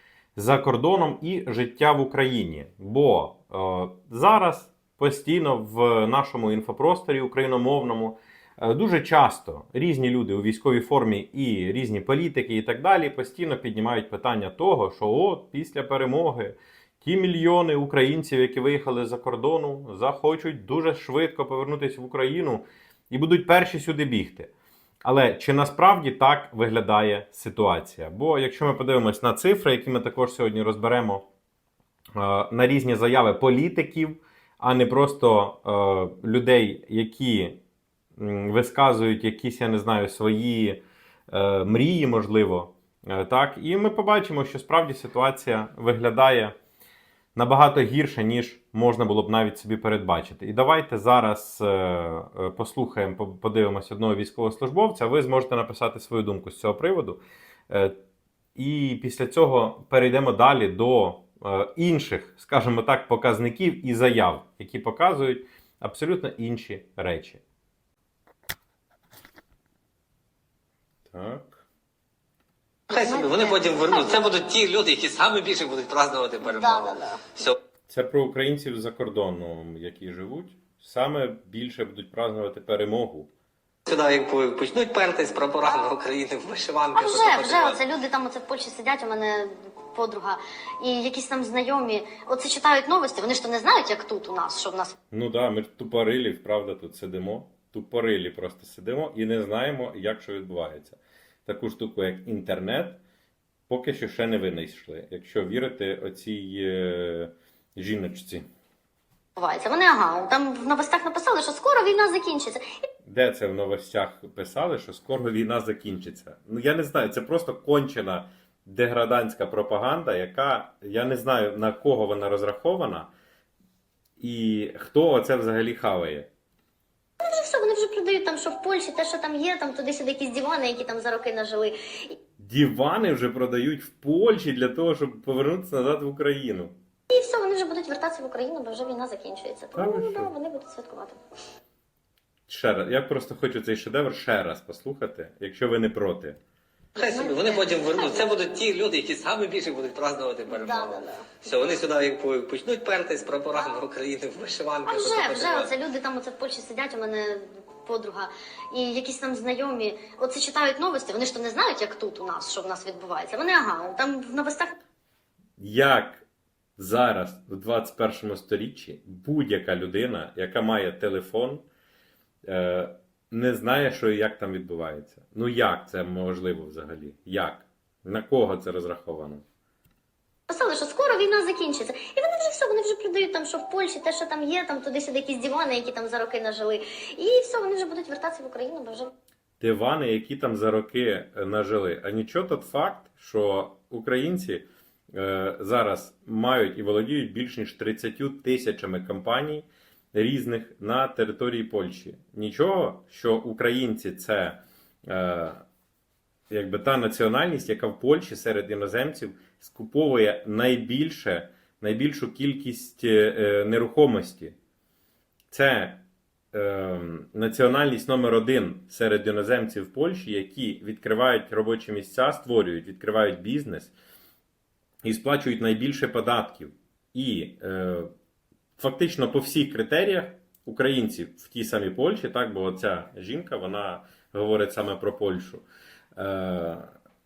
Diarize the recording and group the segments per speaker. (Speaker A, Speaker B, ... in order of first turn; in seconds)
Speaker A: 0.3-24.5, 25.0-31.3, 32.1-37.6, 38.2-46.5, 47.3-58.0, 58.5-67.4, 71.1-71.6, 77.9-83.3, 95.1-103.0, 103.7-108.5, 113.0-123.1, 124.2-126.3, 132.4-136.7, 139.8-140.3, 142.5-146.4, 165.6-166.2, 166.8-171.6, 172.4-179.4, 189.6-205.6, 206.5-214.5, 215.5-223.9, 225.0-228.1, 228.8-235.6, 236.2-236.9
Speaker B: 72.9-77.6, 83.8-87.8, 146.9-155.7
Speaker C: 73.0-74.2, 76.4-77.2, 86.9-94.9, 109.4-112.6, 127.2-132.1, 137.1-141.2, 147.1-148.3, 150.5-151.3, 154.8-164.7, 180.5-189.1